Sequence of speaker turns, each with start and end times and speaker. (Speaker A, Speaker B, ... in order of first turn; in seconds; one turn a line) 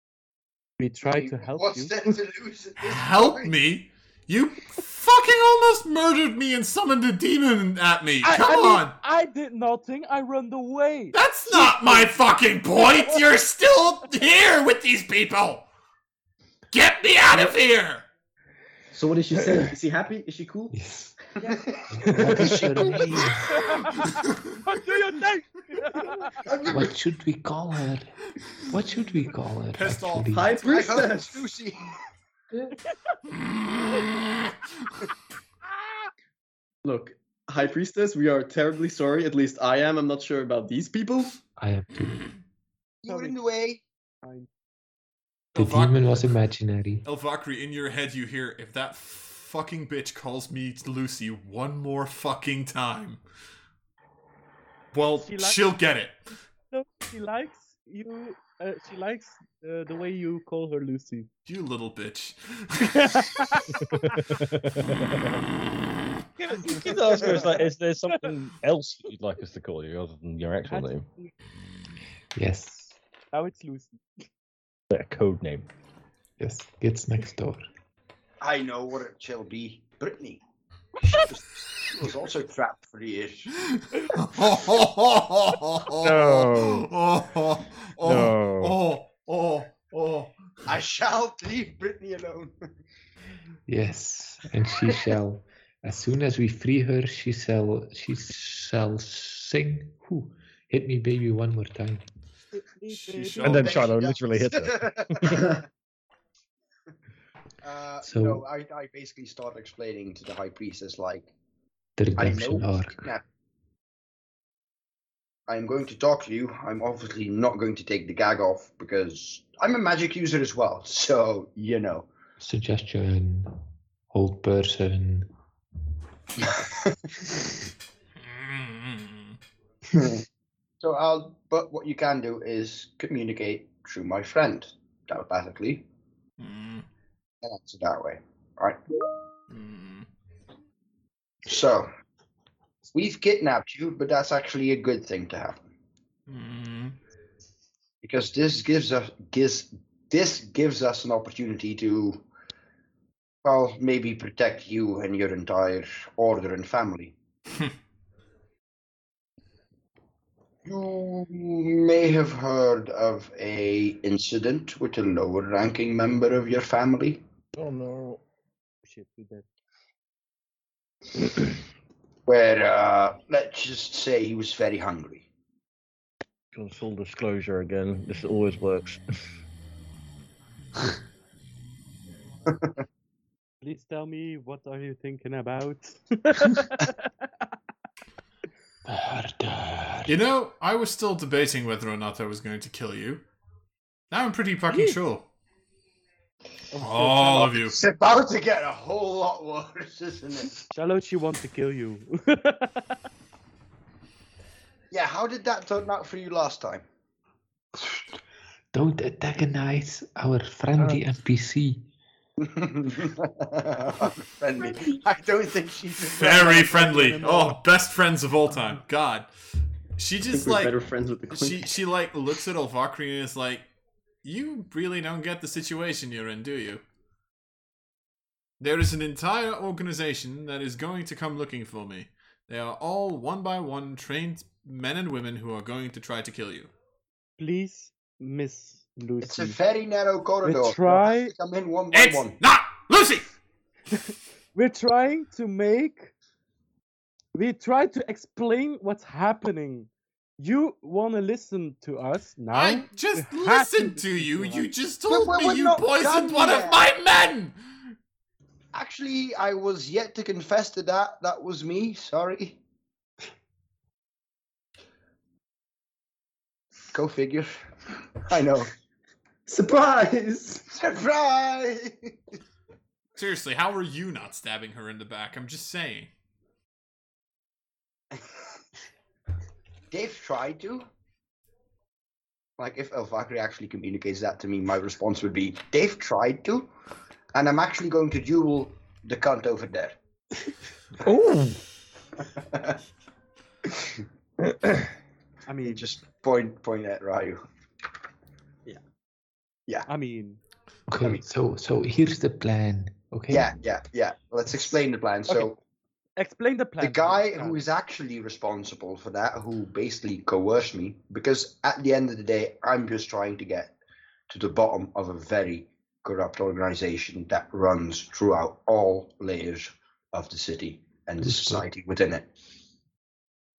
Speaker A: 0.8-1.9
Speaker B: 1.0-3.5
Speaker C: 2.8-8.9
Speaker A: 8.2-11.2
Speaker C: 11.1-15.7
Speaker C: 16.7-18.1
Speaker D: 18.9-20.7
Speaker E: 20.7-21.1
Speaker B: 21.5-23.5
Speaker E: 21.9-23.6
Speaker D: 22.1-22.6
Speaker A: 23.5-26.4
Speaker B: 26.5-26.8
Speaker D: 26.6-26.8
Speaker E: 26.7-30.6
Speaker C: 29.7-31.1
Speaker D: 30.3-31.4
Speaker B: 30.7-31.9
Speaker D: 36.8-41.4
Speaker E: 41.6-42.2
Speaker B: 43.0-43.8
Speaker A: 43.1-43.4
Speaker A: 44.2-44.5
Speaker C: 45.5-46.2
Speaker E: 45.5-47.0
Speaker C: 47.0-53.2
Speaker C: 54.9-56.2
Speaker A: 55.2-55.6
Speaker A: 56.7-61.3
Speaker C: 61.5-63.5
Speaker A: 62.9-64.2
Speaker F: 63.8-65.3
Speaker F: 66.4-71.0
Speaker A: 66.5-68.3
Speaker A: 70.7-71.3
Speaker E: 72.3-73.0
Speaker A: 73.3-74.2
Speaker F: 74.9-75.7
Speaker E: 76.4-77.7
Speaker B: 78.4-80.4
Speaker B: 81.0-83.5
Speaker C: 83.7-90.3
Speaker F: 85.9-86.9
Speaker F: 88.0-88.8
Speaker B: 90.7-92.5
Speaker E: 93.7-102.0
Speaker A: 102.5-103.8
Speaker C: 102.9-103.8
Speaker F: 103.4-105.6
Speaker B: 103.5-105.6
Speaker B: 107.6-111.3
Speaker E: 108.0-108.4
Speaker E: 112.0-113.1
Speaker B: 112.2-113.2
Speaker B: 115.5-122.1
Speaker E: 122.4-125.3
Speaker B: 126.4-127.0
Speaker C: 128.2-129.4
Speaker B: 129.9-130.2
Speaker B: 130.8-135.8
Speaker C: 136.4-136.9
Speaker B: 137.4-138.8
Speaker C: 139.5-140.1
Speaker B: 141.4-141.9
Speaker B: 142.9-145.7
Speaker C: 146.3-147.0
Speaker B: 148.0-152.2
Speaker B: 153.4-157.2
Speaker B: 160.6-167.2
Speaker F: 167.5-168.2
Speaker A: 168.8-169.4
Speaker B: 172.3-175.2
Speaker F: 176.5-179.0
Speaker A: 183.6-187.0
Speaker E: 188.8-190.1
Speaker C: 190.1-193.2
Speaker C: 194.1-195.3
Speaker A: 194.7-195.0
Speaker A: 196.7-197.6
Speaker C: 196.8-197.8
Speaker B: 197.7-200.7
Speaker A: 200.7-202.9
Speaker B: 204.9-206.8
Speaker E: 208.7-211.9
Speaker B: 212.4-216.7
Speaker A: 216.0-217.6
Speaker C: 216.1-219.3
Speaker C: 219.9-220.7
Speaker D: 220.3-221.7
Speaker C: 221.3-223.7
Speaker C: 224.2-226.8
Speaker C: 228.6-236.7
Speaker A: 237.4-239.6
Speaker B: 239.2-242.4
Speaker A: 240.4-241.3
Speaker C: 241.9-243.3
Speaker A: 244.5-246.1
Speaker A: 247.3-254.7
Speaker C: 252.5-257.9
Speaker B: 255.1-256.8
Speaker B: 258.7-262.6
Speaker B: 266.9-268.7
Speaker D: 269.5-270.6
Speaker B: 270.6-272.1
Speaker C: 273.1-276.1
Speaker B: 279.9-280.9
Speaker B: 282.6-286.7
Speaker B: 287.3-290.0
Speaker F: 291.0-291.6
Speaker B: 292.3-292.8
Speaker A: 295.5-295.9
Speaker B: 295.6-297.4
Speaker A: 299.9-300.4
Speaker E: 300.9-303.5
Speaker B: 303.3-305.6
Speaker A: 306.2-307.6
Speaker B: 306.8-313.8
Speaker B: 314.3-322.3
Speaker E: 321.2-321.6